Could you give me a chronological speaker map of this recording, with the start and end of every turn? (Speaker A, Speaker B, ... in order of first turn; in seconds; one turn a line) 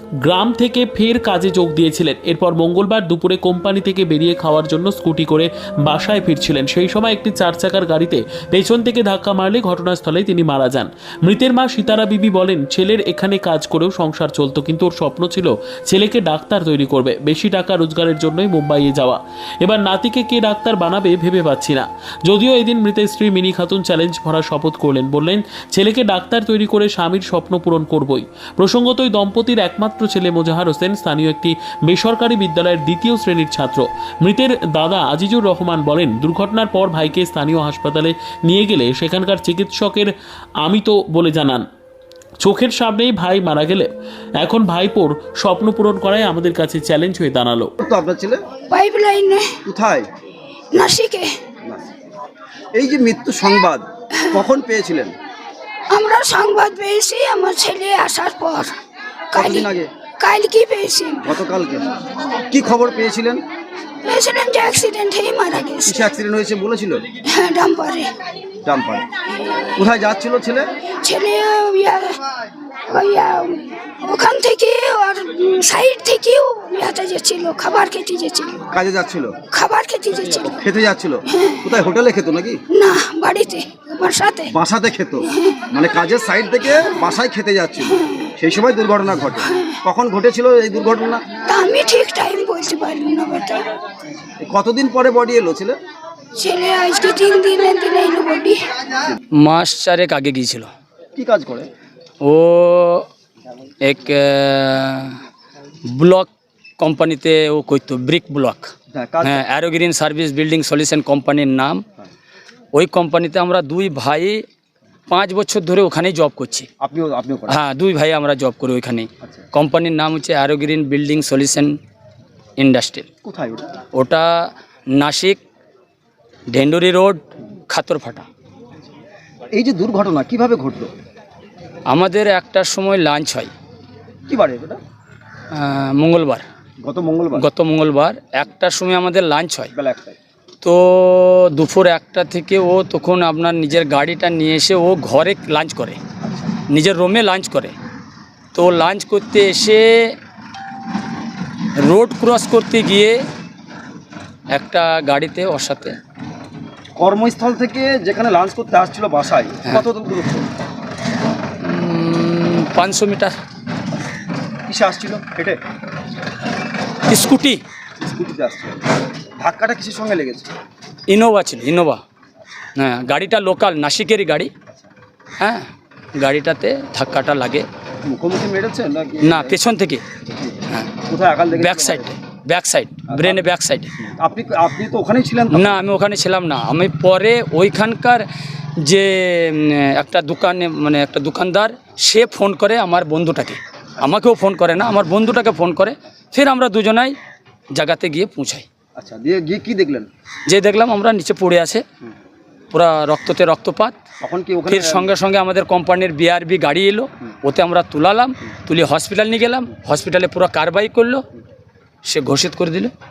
Speaker A: 0.2-40.1
Speaker A: 40.6-41.7
Speaker A: 42.4-43.9
Speaker A: 44.4-47.7
Speaker B: 47.8-48.4
Speaker C: 48.7-49.5
Speaker B: 49.6-50.1
Speaker C: 50.7-51.3
Speaker B: 52.8-55.1
Speaker C: 55.9-58.7
Speaker C: 59.3-59.6
Speaker B: 59.3-59.9
Speaker C: 60.2-61.3
Speaker B: 61.2-61.9
Speaker B: 62.5-63.4
Speaker C: 64.0-66.0
Speaker B: 65.8-67.0
Speaker C: 67.3-68.1
Speaker B: 68.7-69.0
Speaker C: 69.4-69.7
Speaker B: 69.8-70.7
Speaker C: 71.0-72.2
Speaker C: 72.9-78.7
Speaker B: 78.7-79.4
Speaker C: 79.5-80.6
Speaker B: 80.5-82.6
Speaker C: 81.3-81.6
Speaker C: 82.7-84.5
Speaker B: 84.5-91.2
Speaker C: 85.3-85.6
Speaker C: 87.9-88.3
Speaker C: 89.5-89.8
Speaker C: 91.5-93.7
Speaker B: 94.4-95.8
Speaker C: 96.4-98.6
Speaker D: 99.4-100.7
Speaker B: 101.2-101.7
Speaker D: 102.2-103.1
Speaker D: 103.8-105.2
Speaker D: 105.9-108.7
Speaker B: 108.9-109.4
Speaker D: 109.2-111.8
Speaker D: 112.7-114.4
Speaker D: 115.1-116.7
Speaker B: 116.8-117.6
Speaker D: 117.5-121.8
Speaker D: 122.6-123.1
Speaker B: 123.2-123.8
Speaker D: 123.9-125.4
Speaker D: 126.5-128.3
Speaker B: 129.5-130.9
Speaker D: 131.9-133.5
Speaker B: 134.3-134.8
Speaker D: 135.5-136.4
Speaker B: 136.8-137.5
Speaker D: 137.3-139.7
Speaker B: 139.7-140.2
Speaker D: 140.6-146.0
Speaker D: 146.7-147.8
Speaker D: 148.5-150.2
Speaker D: 151.8-153.2
Speaker D: 154.5-156.0
Speaker B: 157.0-160.5
Speaker D: 161.6-163.4
Speaker B: 164.7-165.6
Speaker D: 167.1-167.6
Speaker B: 168.0-168.8
Speaker B: 169.4-170.5
Speaker D: 171.1-172.0
Speaker D: 172.8-174.5
Speaker D: 175.4-177.7
Speaker B: 178.1-179.6
Speaker D: 179.2-180.0
Speaker B: 180.3-182.1
Speaker D: 181.5-183.9
Speaker B: 183.1-183.4
Speaker B: 184.0-185.8
Speaker D: 185.5-188.3
Speaker D: 188.8-197.2
Speaker D: 197.8-198.7
Speaker B: 199.0-200.1
Speaker D: 200.5-201.8
Speaker D: 202.7-204.0
Speaker B: 204.2-205.1
Speaker D: 204.7-211.2
Speaker D: 212.1-212.9